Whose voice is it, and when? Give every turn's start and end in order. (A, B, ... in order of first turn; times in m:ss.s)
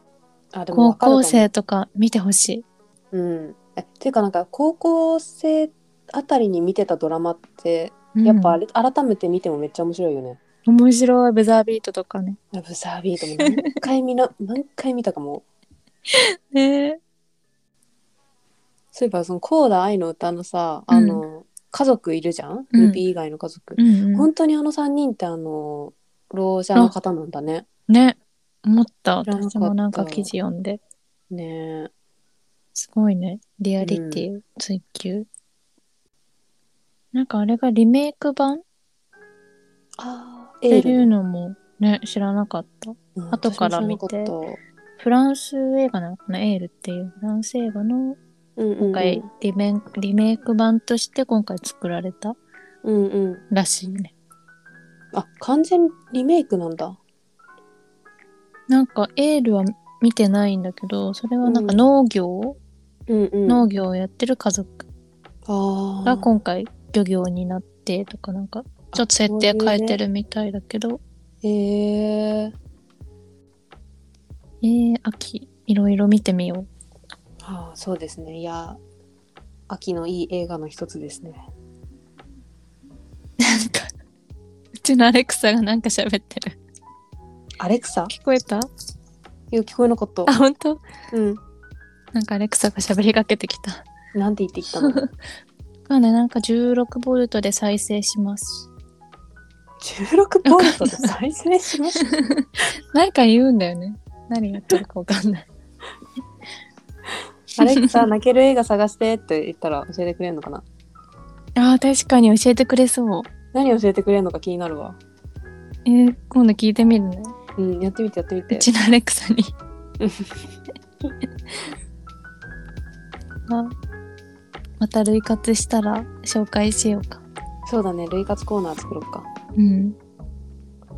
0:00.5-0:01.5 A
0:00.7-0:02.6 B
0:03.1-0:10.4 A
0:08.1-0:08.6 B
0:10.6-0:12.4 B
0:12.5-0:15.4 A
0:16.1-0:17.0 B
0:18.9-0:27.6 A
0:20.9-0:21.2 B
0:22.7-0:23.0 B
0:23.8-0:24.3 B
0:27.9-0:30.8 B
0:29.3-0:30.3 A
0:31.3-0:31.9 A
0:32.7-0:35.3 B
0:33.8-0:34.2 A
0:37.1-0:38.6 B
0:40.0-0:41.1 A
0:40.7-0:44.3 B
0:43.2-0:44.6 A
0:45.0-0:48.2 B
0:48.6-0:49.3 A
0:48.8-0:52.4 B
0:52.8-0:53.4 A
0:53.5-0:54.1 B
0:55.1-0:57.0 A
0:58.7-1:02.6 B
1:01.4-1:01.8 A
1:03.1-1:03.6 A
1:03.5-1:04.8 B
1:05.5-1:06.3 A
1:06.0-1:11.0 B
1:08.9-1:10.0 A
1:11.4-1:12.5 A
1:14.6-1:16.7 B
1:17.4-1:18.8 A
1:19.7-1:21.4 A
1:23.4-1:23.9 B
1:24.8-1:26.6 B
1:27.6-1:28.1 A
1:28.1-1:28.7 B
1:29.5-1:30.3 A
1:30.2-1:30.8 B
1:31.1-1:31.4 A
1:32.1-1:33.8 B
1:34.1-1:35.0 A
1:34.8-1:35.1 B
1:35.9-1:38.7 B
1:39.8-1:42.1 A
1:40.4-1:41.1 B
1:42.0-1:45.5 B
1:47.6-1:50.6 A
1:47.6-1:48.0 B
1:51.6-1:53.3 B
1:53.5-1:55.0 A
1:55.8-1:57.3 B
1:57.6-1:58.7 A
1:58.5-1:59.5 B
2:00.0-2:00.3 A
2:03.5-2:03.7 B
2:04.8-2:07.2 B
2:07.6-2:09.3 A
2:09.6-2:10.0 B